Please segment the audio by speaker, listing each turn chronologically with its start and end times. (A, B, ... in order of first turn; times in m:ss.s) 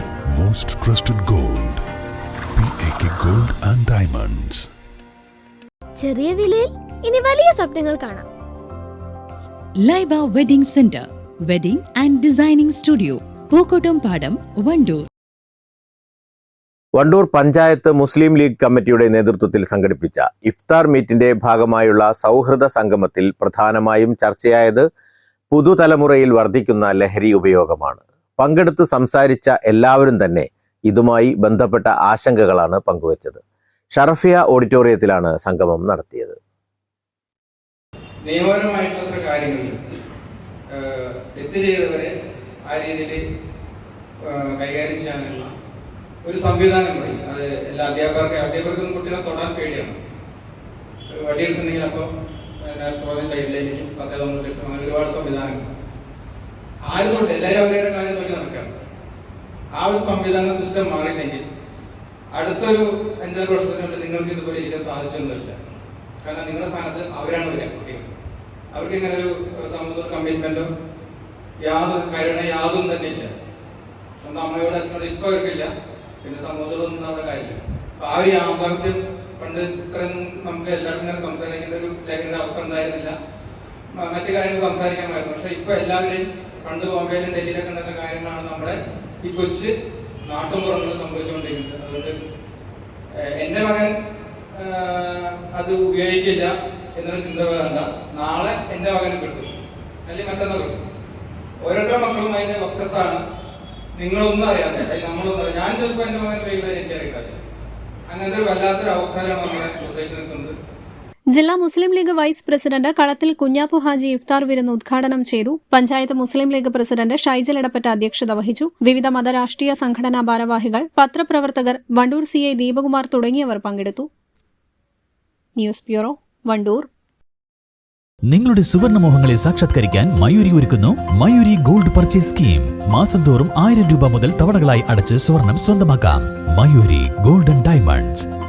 0:00.4-0:01.8 A
0:02.5-0:04.6 A
0:06.0-0:08.3 B
0:09.8-0:15.1 C
0:17.0-0:24.8 D
0:25.5-0:33.4 D
0:33.9-0:36.4 D
0:38.2-0:39.8 E
0:40.7-0:42.1 E
0:42.6-0:43.2 E
0:44.2-0:45.5 E
0:46.2-0:50.0 E
0:51.1-0:52.1 E
0:52.6-0:55.7 E
0:56.9-0:58.7 E
0:59.8-1:01.4 E
1:02.3-1:05.6 E
1:06.2-1:08.0 E
1:08.7-1:10.7 E
1:11.6-1:13.4 E
1:14.2-1:15.7 E
1:16.2-1:23.1 E
1:23.9-1:29.7 E
1:30.2-1:32.1 E
1:33.2-1:33.9 E
1:34.5-1:39.5 E
1:40.1-1:40.8 E
1:41.6-1:43.2 E
1:44.0-1:47.4 E
1:48.1-1:50.5 E
1:51.3-2:04.1 F
2:05.6-2:06.9 F
2:08.3-2:18.2 G